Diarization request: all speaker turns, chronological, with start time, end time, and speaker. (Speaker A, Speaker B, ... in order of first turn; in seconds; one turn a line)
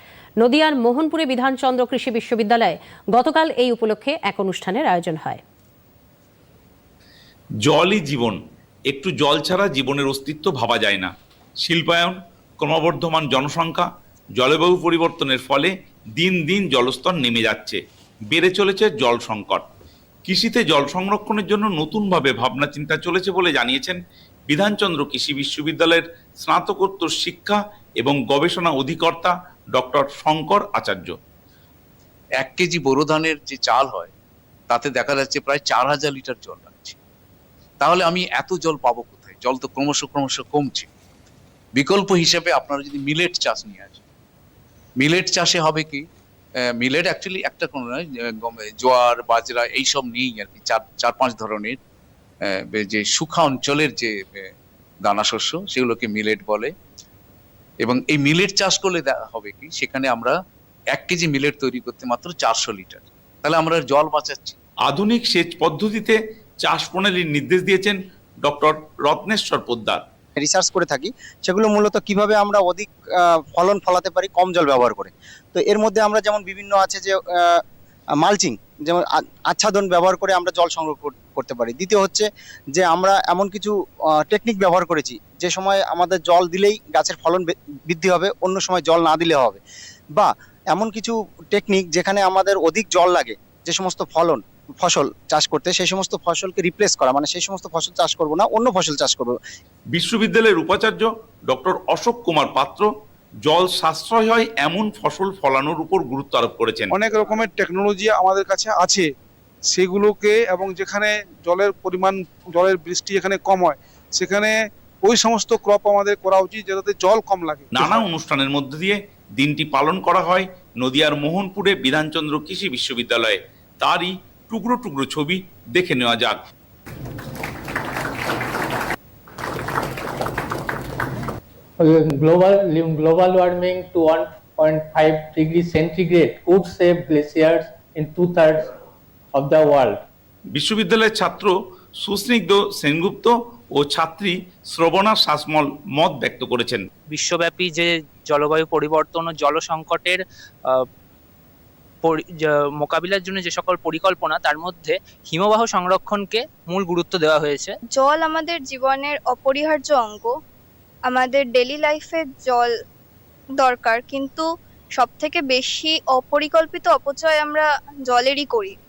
Speaker A: 0.4-5.4
Speaker B: 7.6-8.4
Speaker B: 8.9-11.1
Speaker B: 11.6-13.8
Speaker B: 14.4-17.8
Speaker B: 18.3-19.6
Speaker B: 20.3-31.1
Speaker C: 32.4-34.1
Speaker C: 34.7-37.0
Speaker C: 37.8-40.9
Speaker C: 41.7-44.0
Speaker C: 45.0-46.0
Speaker C: 46.8-51.8
Speaker C: 52.4-54.5
Speaker C: 55.0-56.7
Speaker C: 57.8-60.3
Speaker C: 60.9-64.6
Speaker B: 64.8-70.0
Speaker D: 70.4-77.6
Speaker D: 78.2-89.6
Speaker D: 90.2-99.4
Speaker B: 99.9-102.9
Speaker B: 103.5-106.9
Speaker E: 106.9-109.0
Speaker E: 109.7-114.5
Speaker E: 115.0-118.0
Speaker B: 117.7-126.4
Speaker F: 131.8-138.7
Speaker F: 139.3-140.0
Speaker B: 140.5-146.8
Speaker G: 147.1-150.8
Speaker G: 152.0-157.8
Speaker H: 157.9-160.3
Speaker H: 161.0-162.7
Speaker H: 163.6-168.8